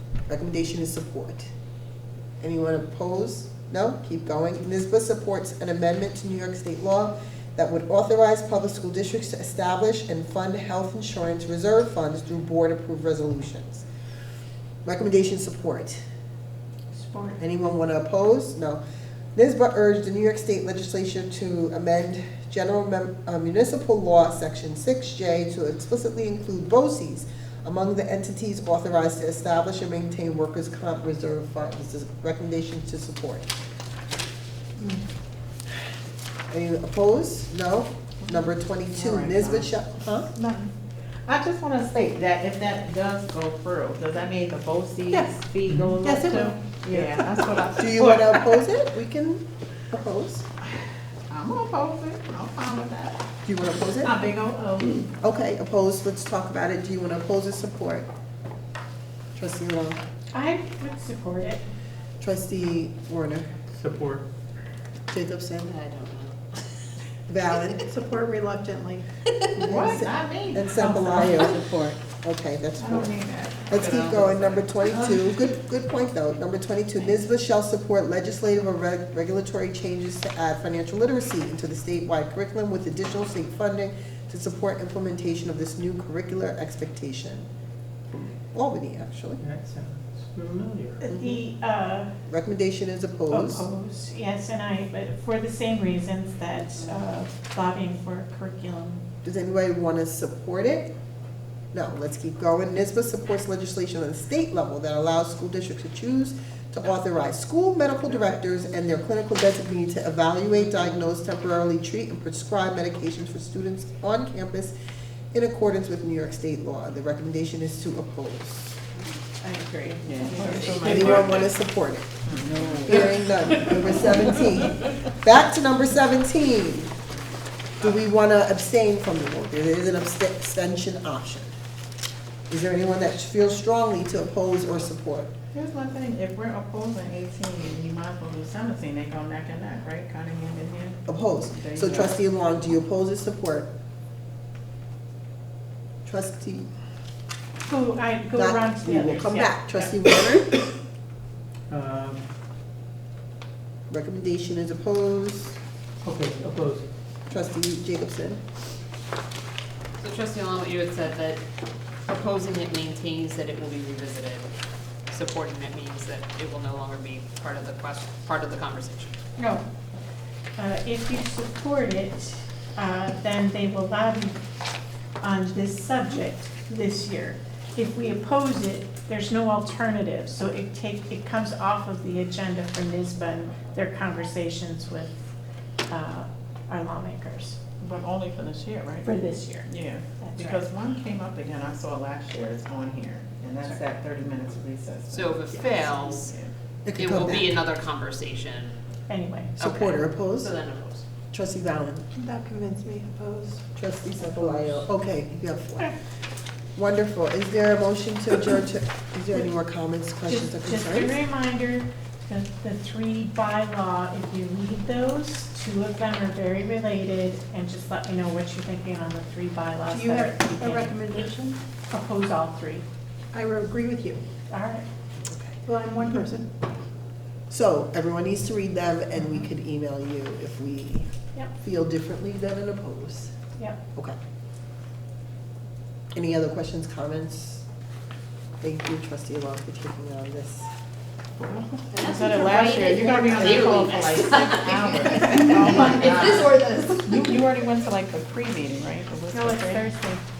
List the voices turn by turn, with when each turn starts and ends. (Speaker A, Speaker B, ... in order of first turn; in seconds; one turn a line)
Speaker A: 0.3-1.5
Speaker A: 2.4-13.8
Speaker A: 14.8-16.0
Speaker B: 17.0-17.4
Speaker A: 17.4-18.8
Speaker A: 19.4-33.5
Speaker A: 36.5-40.3
Speaker C: 38.2-39.7
Speaker C: 40.3-40.7
Speaker C: 41.3-48.4
Speaker D: 45.7-45.9
Speaker B: 46.0-46.5
Speaker A: 47.8-50.5
Speaker C: 51.3-53.2
Speaker A: 53.4-54.2
Speaker C: 54.0-55.1
Speaker A: 55.2-58.1
Speaker A: 59.3-60.0
Speaker E: 60.3-61.6
Speaker A: 62.2-63.5
Speaker D: 63.8-64.2
Speaker A: 65.1-65.8
Speaker F: 65.7-66.6
Speaker A: 67.3-67.8
Speaker B: 67.8-69.0
Speaker C: 69.6-71.5
Speaker A: 69.6-73.1
Speaker C: 72.8-74.5
Speaker A: 73.7-87.5
Speaker A: 88.1-89.4
Speaker D: 89.4-91.0
Speaker E: 91.0-92.1
Speaker A: 91.1-91.4
Speaker A: 92.3-93.7
Speaker E: 93.3-99.0
Speaker A: 99.2-100.9
Speaker A: 101.7-114.8
Speaker A: 115.3-118.8
Speaker E: 119.4-120.9
Speaker C: 120.0-121.2
Speaker D: 120.2-121.2
Speaker F: 120.4-121.3
Speaker A: 120.5-122.2
Speaker C: 122.3-122.6
Speaker D: 122.4-122.9
Speaker A: 122.8-126.9
Speaker A: 127.8-131.5
Speaker A: 132.5-135.3
Speaker C: 135.5-142.2
Speaker A: 141.1-143.7
Speaker A: 146.1-146.7
Speaker E: 147.7-149.6
Speaker A: 148.3-150.6
Speaker D: 151.7-152.2
Speaker A: 153.9-155.6
Speaker D: 156.0-156.9
Speaker A: 157.3-158.4
Speaker F: 160.0-161.4
Speaker F: 162.1-164.5
Speaker F: 165.1-169.2
Speaker E: 169.4-169.6
Speaker E: 170.6-174.4
Speaker E: 175.2-185.1
Speaker E: 185.9-187.6
Speaker C: 187.8-196.5
Speaker E: 189.0-190.6
Speaker F: 195.1-196.3
Speaker A: 196.8-197.6
Speaker F: 197.0-198.8
Speaker E: 199.1-199.6
Speaker A: 199.6-200.5
Speaker F: 199.6-201.0
Speaker A: 201.3-202.1
Speaker B: 202.2-203.6
Speaker A: 203.7-205.9
Speaker A: 206.8-211.2
Speaker E: 210.3-221.3
Speaker B: 219.9-221.6
Speaker E: 221.9-222.8
Speaker B: 223.3-224.2
Speaker E: 224.5-224.8
Speaker B: 225.7-226.5
Speaker A: 227.5-233.3
Speaker A: 236.1-237.7
Speaker A: 238.6-240.7
Speaker C: 241.4-249.8
Speaker F: 241.9-247.4
Speaker E: 249.3-250.2